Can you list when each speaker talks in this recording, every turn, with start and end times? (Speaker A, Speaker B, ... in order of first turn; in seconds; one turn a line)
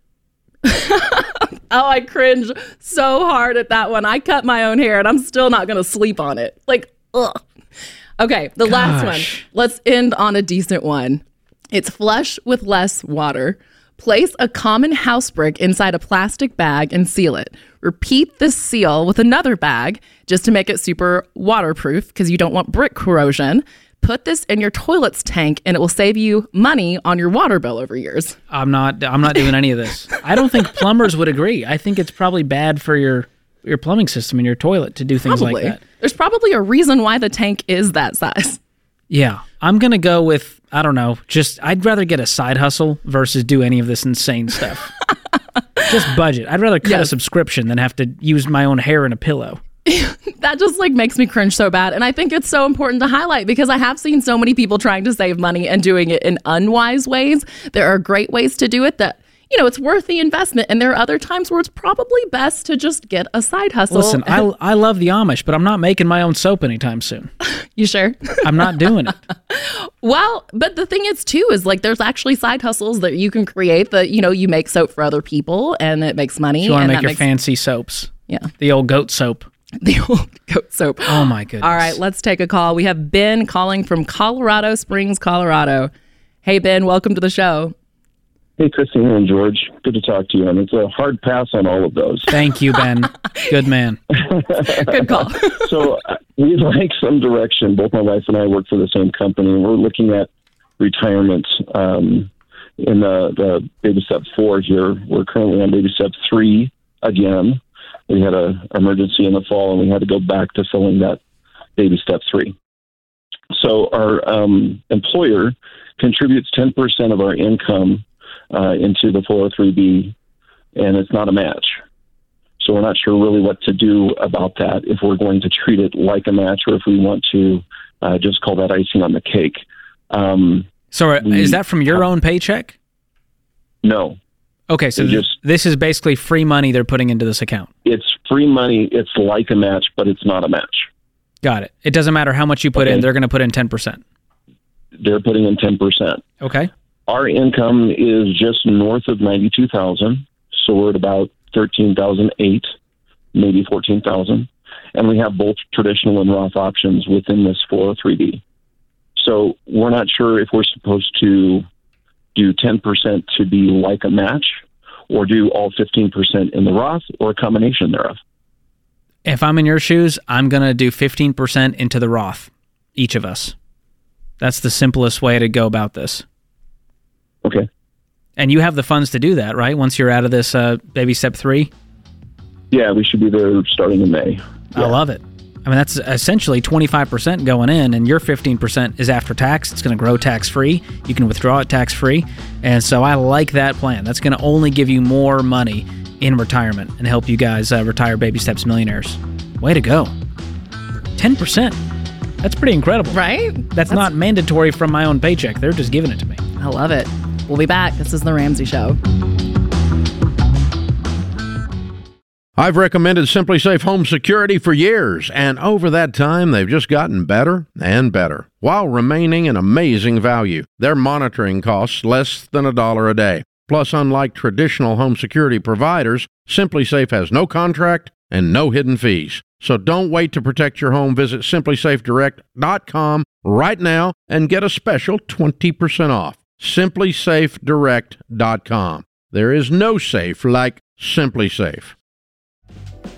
Speaker A: 0.6-7.4
Speaker A: 8.2-28.4
Speaker B: 8.7-9.4
Speaker B: 28.5-35.8
Speaker A: 35.2-38.6
Speaker B: 39.1-44.9
Speaker B: 45.9-49.6
Speaker A: 46.8-47.1
Speaker A: 49.9-64.4
Speaker B: 63.9-67.3
Speaker A: 67.5-68.7
Speaker B: 68.4-69.2
Speaker A: 69.5-77.2
Speaker B: 76.6-79.5
Speaker A: 79.8-85.9
Speaker B: 81.0-82.0
Speaker A: 86.4-87.7
Speaker C: 88.6-92.3
Speaker B: 92.3-94.0
Speaker C: 94.2-94.9
Speaker A: 94.7-95.7
Speaker C: 95.5-111.2
Speaker C: 111.8-112.5
Speaker C: 113.5-120.1
Speaker C: 120.8-121.8
Speaker C: 122.6-130.7
Speaker B: 130.9-132.7
Speaker C: 131.2-131.6
Speaker C: 133.8-134.2
Speaker B: 134.7-137.7
Speaker C: 135.0-135.3
Speaker C: 137.8-140.9
Speaker B: 141.4-144.0
Speaker C: 142.8-143.1
Speaker C: 145.0-146.2
Speaker B: 146.4-146.7
Speaker C: 147.1-152.7
Speaker C: 153.3-158.4
Speaker C: 159.2-161.7
Speaker C: 162.3-164.6
Speaker C: 165.1-168.2
Speaker B: 169.2-173.5
Speaker B: 174.4-176.2
Speaker B: 178.4-181.7
Speaker C: 182.7-184.9
Speaker B: 184.7-200.1
Speaker B: 201.2-201.8
Speaker B: 202.4-203.2
Speaker A: 203.1-204.1
Speaker B: 203.7-206.4
Speaker A: 206.6-209.0
Speaker D: 212.6-241.9